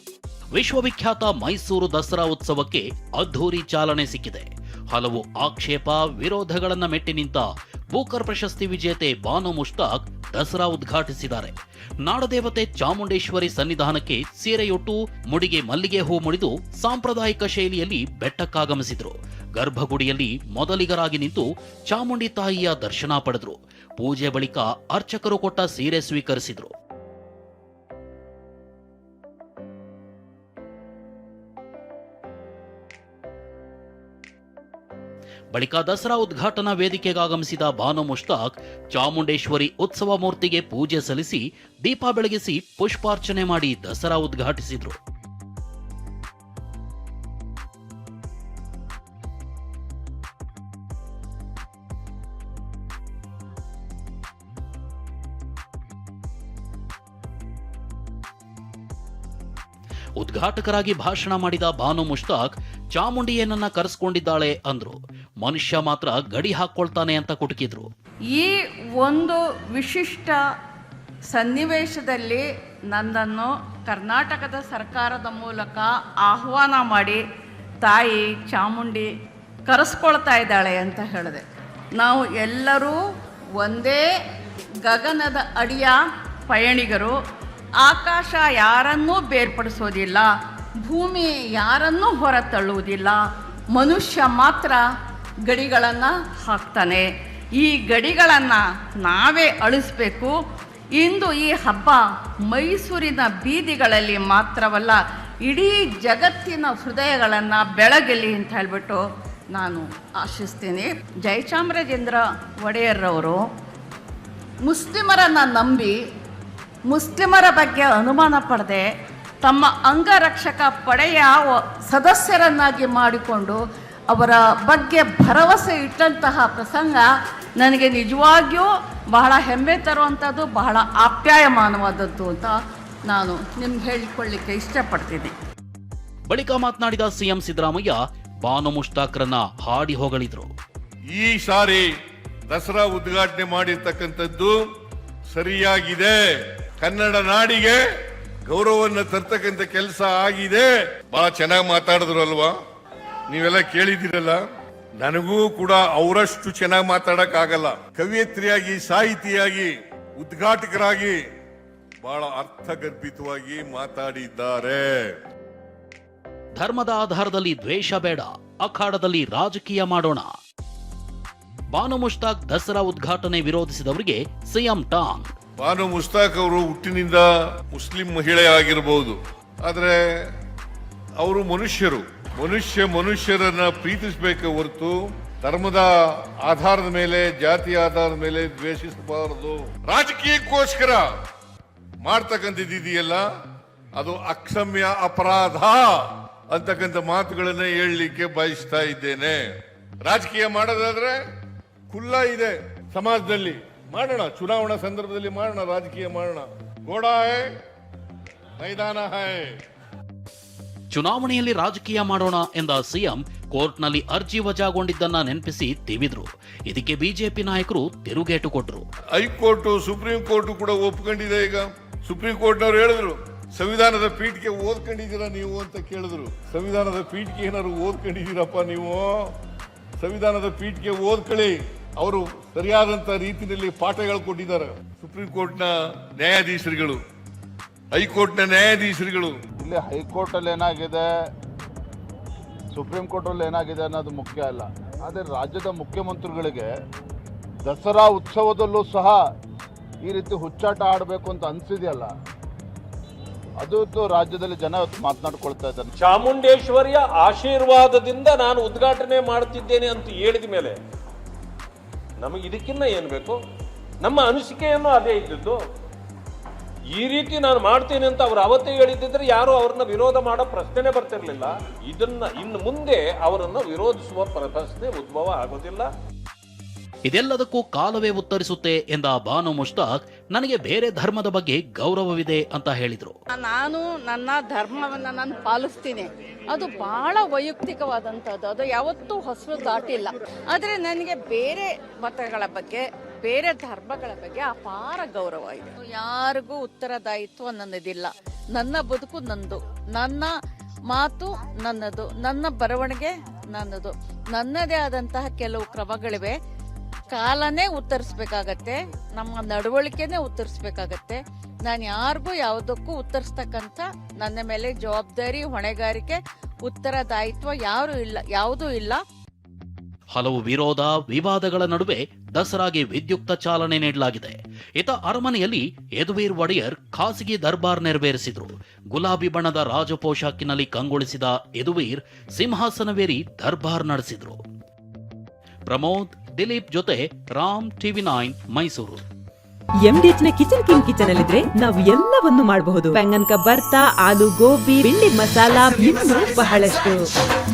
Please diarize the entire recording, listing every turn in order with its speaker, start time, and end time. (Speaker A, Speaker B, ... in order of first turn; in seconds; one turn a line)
Speaker A: 0.5-26.7
Speaker A: 35.5-45.0
Speaker A: 60.2-67.9
Speaker B: 68.3-70.4
Speaker B: 71.3-77.2
Speaker B: 77.8-79.1
Speaker B: 79.7-81.4
Speaker B: 82.0-83.0
Speaker B: 83.6-84.0
Speaker B: 84.8-87.1
Speaker B: 87.8-90.3
Speaker B: 90.8-93.2
Speaker B: 93.7-94.8
Speaker B: 95.5-97.1
Speaker B: 97.6-100.3
Speaker B: 101.0-109.0
Speaker B: 109.5-113.4
Speaker B: 114.6-116.0
Speaker B: 116.9-118.8
Speaker B: 119.4-123.6
Speaker B: 124.1-127.0
Speaker B: 127.6-132.6
Speaker B: 133.1-135.3
Speaker A: 136.3-140.5
Speaker C: 141.1-141.8
Speaker C: 142.5-144.6
Speaker C: 145.3-146.2
Speaker C: 146.8-147.8
Speaker C: 148.4-152.5
Speaker C: 153.3-154.4
Speaker C: 155.0-161.2
Speaker C: 162.0-165.1
Speaker A: 166.6-170.3
Speaker A: 171.7-175.3
Speaker C: 175.6-180.0
Speaker C: 181.2-185.9
Speaker C: 186.4-191.1
Speaker C: 192.0-193.2
Speaker C: 193.9-199.4
Speaker C: 200.0-201.2
Speaker C: 201.9-207.5
Speaker C: 208.6-209.5
Speaker A: 210.9-218.8
Speaker C: 219.1-229.3
Speaker C: 230.0-237.0
Speaker C: 237.9-239.3
Speaker D: 239.6-241.0
Speaker D: 242.7-246.7
Speaker D: 247.6-249.2
Speaker D: 250.0-252.1
Speaker D: 253.6-255.9
Speaker E: 256.0-260.8
Speaker E: 262.2-263.4
Speaker E: 264.0-265.6
Speaker E: 266.9-275.9
Speaker A: 277.1-283.1
Speaker B: 283.3-300.3
Speaker B: 300.9-306.3
Speaker B: 307.1-319.0
Speaker A: 320.1-334.4
Speaker A: 335.7-339.0
Speaker F: 339.8-347.0